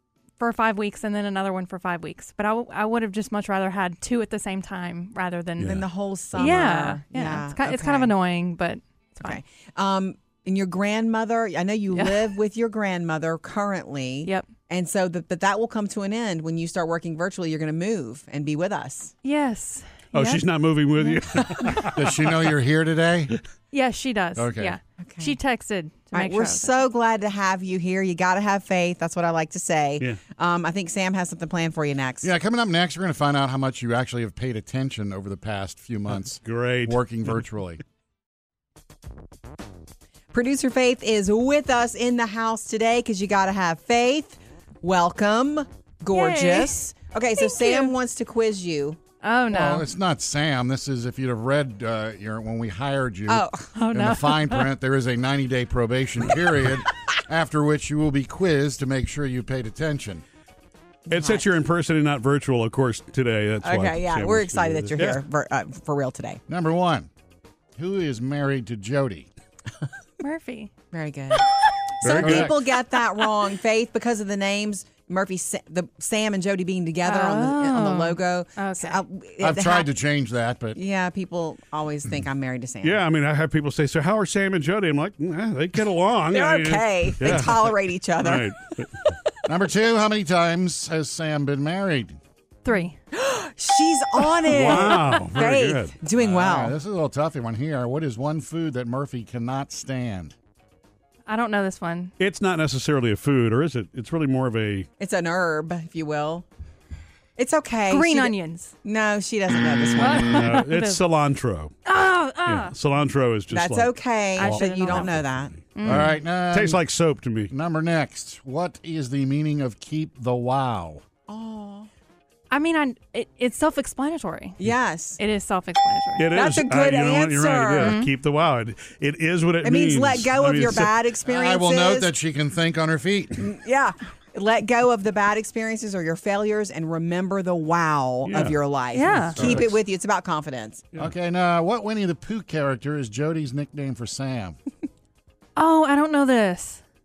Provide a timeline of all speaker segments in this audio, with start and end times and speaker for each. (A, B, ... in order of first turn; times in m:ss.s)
0:00.4-0:05.8 A
0:05.6-0:08.1 B
0:06.3-0:09.4 A
0:09.2-0:19.1 B
0:11.9-0:12.3 A
0:14.2-0:14.5 A
0:19.2-0:20.5 A
0:20.1-0:22.3 C
0:21.0-0:21.8 A
0:21.9-0:23.3 D
0:23.7-0:26.7 A
0:24.3-0:24.8 D
0:25.0-0:25.3 B
0:26.1-0:32.3 B
0:32.2-0:37.8 D
0:36.1-0:37.4 C
0:40.3-0:49.0 B
0:46.1-0:46.8 A
0:47.4-0:47.9 A
0:49.2-0:49.9 A
0:49.5-1:00.2 D
0:53.3-0:53.7 B
0:53.8-0:54.7 A
1:01.1-1:01.4 B
1:01.1-1:05.2 C
1:03.6-1:06.4 B
1:06.5-1:07.1 D
1:07.8-1:09.3 D
1:10.2-1:10.7 A
1:10.9-1:19.9 B
1:12.0-1:12.6 D
1:12.0-1:12.6 C
1:17.0-1:19.0 A
1:19.4-1:20.8 D
1:20.7-1:23.0 B
1:22.8-1:28.9 C
1:26.3-1:28.5 B
1:29.4-1:32.2 D
1:32.6-1:33.0 A
1:33.1-1:36.7 B
1:34.4-1:35.9 C
1:36.2-1:40.3 D
1:41.3-1:42.1 A
1:42.2-1:44.9 C
1:45.0-1:46.4 B
1:47.4-1:50.4 B
1:47.9-1:48.7 A
1:50.0-1:51.0 A
1:50.2-1:51.8 C
1:51.8-1:52.7 A
1:52.4-1:53.9 C
1:53.5-1:55.6 B
1:54.4-1:55.2 A
1:55.7-1:56.1 A
1:55.8-1:57.5 C
1:55.8-1:56.8 D
1:57.5-2:01.0 D
2:01.3-2:01.9 B
2:02.5-2:04.6 A
2:04.6-2:05.2 B
2:05.2-2:06.4 A
2:06.2-2:10.9 C
2:06.3-2:08.0 B
2:07.8-2:08.1 A
2:09.6-2:12.1 B
2:11.2-2:13.4 D
2:13.4-2:20.8 B
2:18.2-2:18.6 C
2:18.9-2:19.4 A
2:19.3-2:19.7 D
2:21.0-2:24.6 D
2:25.6-2:26.8 A